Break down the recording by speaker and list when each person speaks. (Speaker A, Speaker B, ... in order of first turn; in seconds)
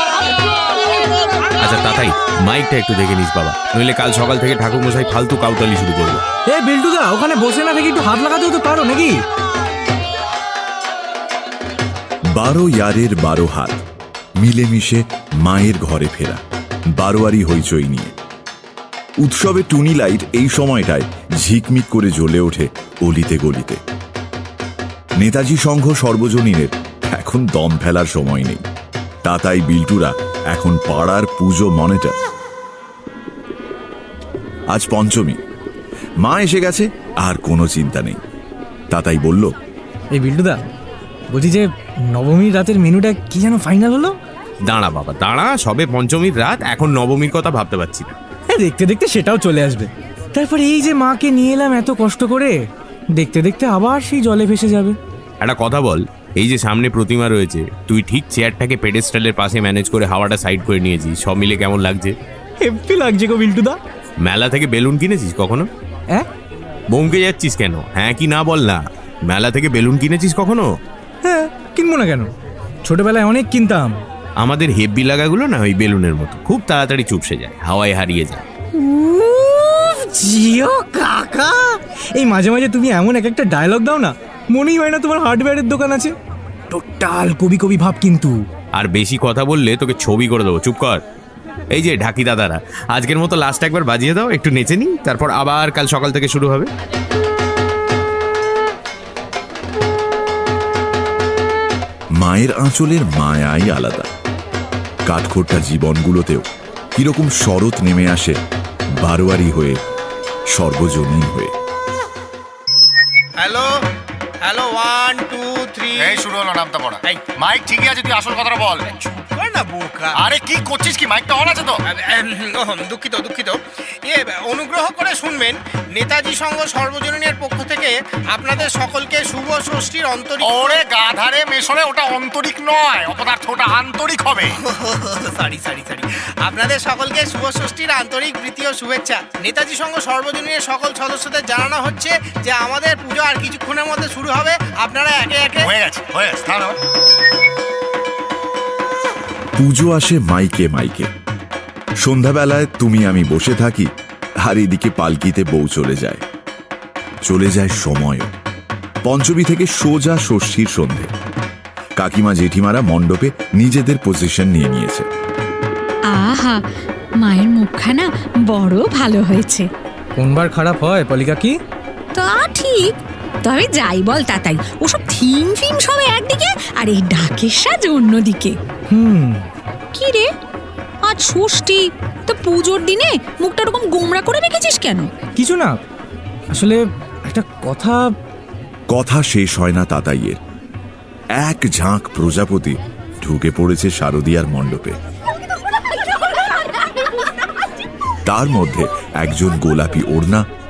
Speaker A: 1.6-6.2, 44.7-48.1, 55.4-62.1, 64.2-65.7, 66.9-70.7, 74.4-78.4, 88.8-91.0, 91.7-96.7
Speaker B: 6.5-9.2, 40.1-40.6, 41.3-44.1, 48.5-52.6, 53.1-55.0, 62.6-63.8, 71.2-72.3, 72.9-74.0, 78.8-86.1, 86.7-88.4, 170.2-171.5, 178.9-179.5, 185.4-185.8, 186.5-188.1
Speaker C: 12.3-13.8, 14.4-16.4, 17.0-18.1, 19.2-23.8, 25.2-28.6, 29.2-32.2, 34.7-35.4, 36.2-38.2, 38.9-39.5, 102.2-104.1, 105.1-108.4, 109.0-109.8, 110.5-111.5, 149.6-151.1, 152.0-153.9, 154.4-156.2, 157.2-158.3, 159.1-161.1, 162.0-165.1, 188.9-190.4, 191.4-195.0, 198.3-200.4
Speaker D: 113.4-113.7, 114.4-116.3, 118.9-120.3, 121.9-130.8, 134.6-145.7
Speaker E: 116.0-118.9, 120.2-121.8, 130.5-134.6, 145.6-146.8
Speaker F: 166.1-166.6, 167.2-169.7, 172.2-178.6, 179.9-180.3, 181.1-185.1